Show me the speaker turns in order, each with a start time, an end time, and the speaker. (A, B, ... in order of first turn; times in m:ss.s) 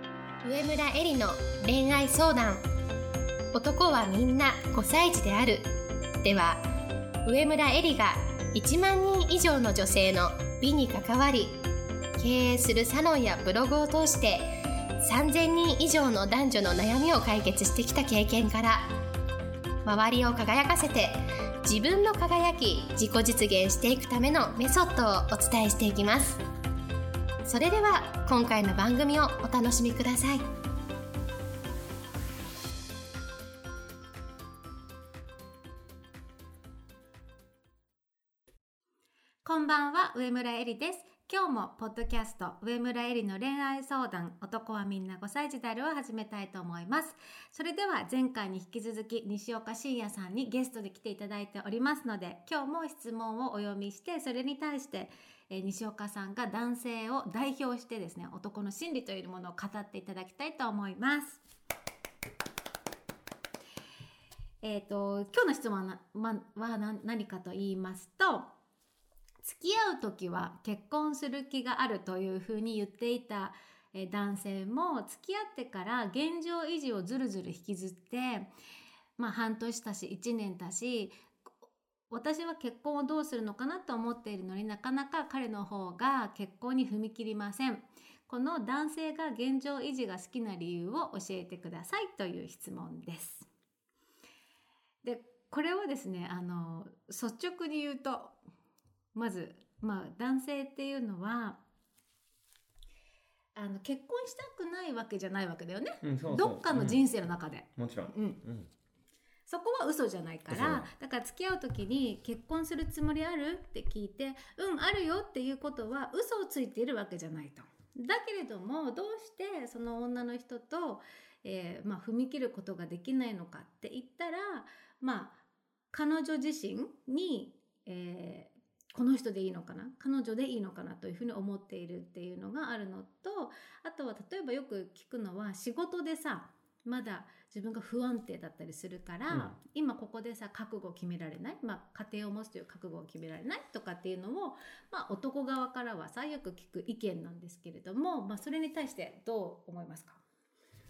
0:00.4-0:02.6 A
0:03.5-0:05.7 A
0:06.2-0:06.6 A
0:07.2-0:11.6 A
0:12.2-0:18.9 A
0:19.8-0:26.4 A
0:27.4-0:30.4 A
0:39.4-1:01.4 B
1:04.6-1:08.5 B
1:09.4-1:18.5 B
1:19.2-1:21.2 B
1:22.1-1:33.5 B
1:35.0-1:38.4 B
1:39.1-1:41.6 B
1:43.5-1:48.4 B
1:46.0-1:47.0 C
1:47.8-1:48.7 C
1:49.5-2:05.4 B
1:50.5-1:50.9 C
2:05.9-2:30.2 B
2:19.3-2:19.6 C